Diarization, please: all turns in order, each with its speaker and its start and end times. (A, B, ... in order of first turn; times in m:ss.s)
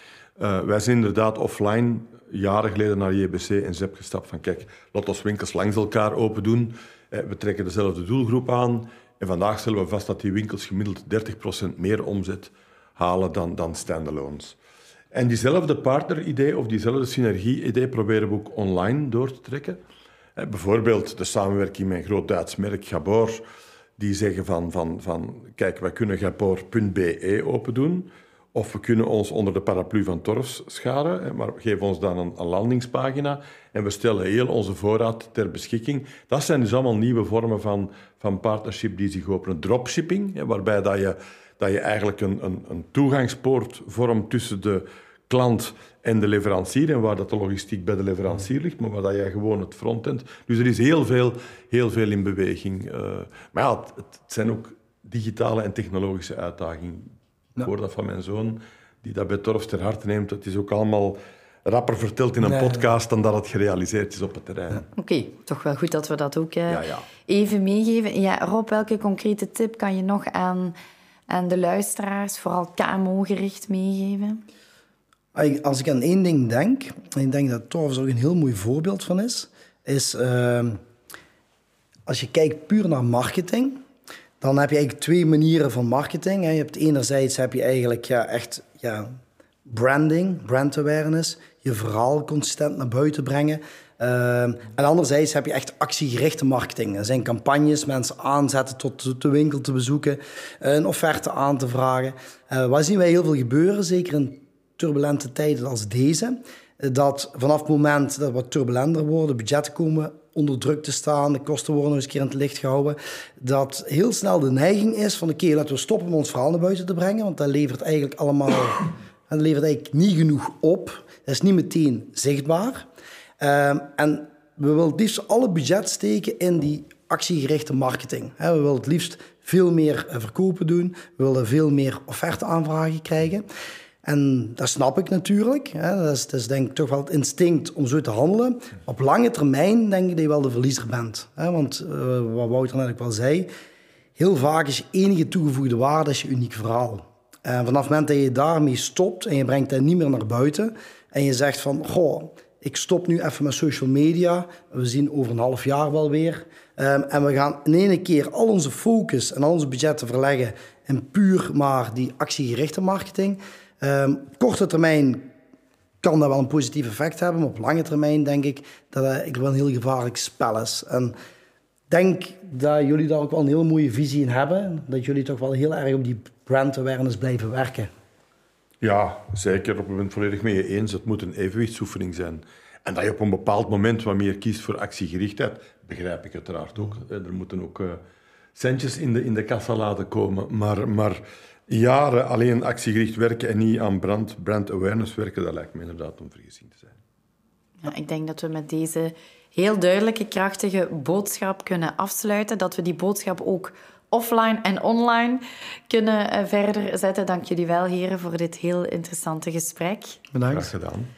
0:00.4-0:14.6 A
0:15.1-0:19.8 A
0:20.4-0:23.4 A
0:24.0-1:04.9 A
1:05.0-1:10.8 B
1:06.7-1:07.0 A
1:11.3-1:14.4 B
1:15.3-1:20.8 C
1:22.1-1:23.8 C
1:24.4-1:29.1 C
1:29.7-2:02.9 C
2:03.4-2:13.4 C
2:14.0-2:23.5 C
2:24.2-2:45.3 C
2:46.0-2:51.1 C
2:51.9-2:57.9 C
2:58.8-3:08.0 A
3:08.6-3:17.0 A
3:17.8-3:30.2 B
3:30.3-3:30.7 C
3:30.5-3:31.1 A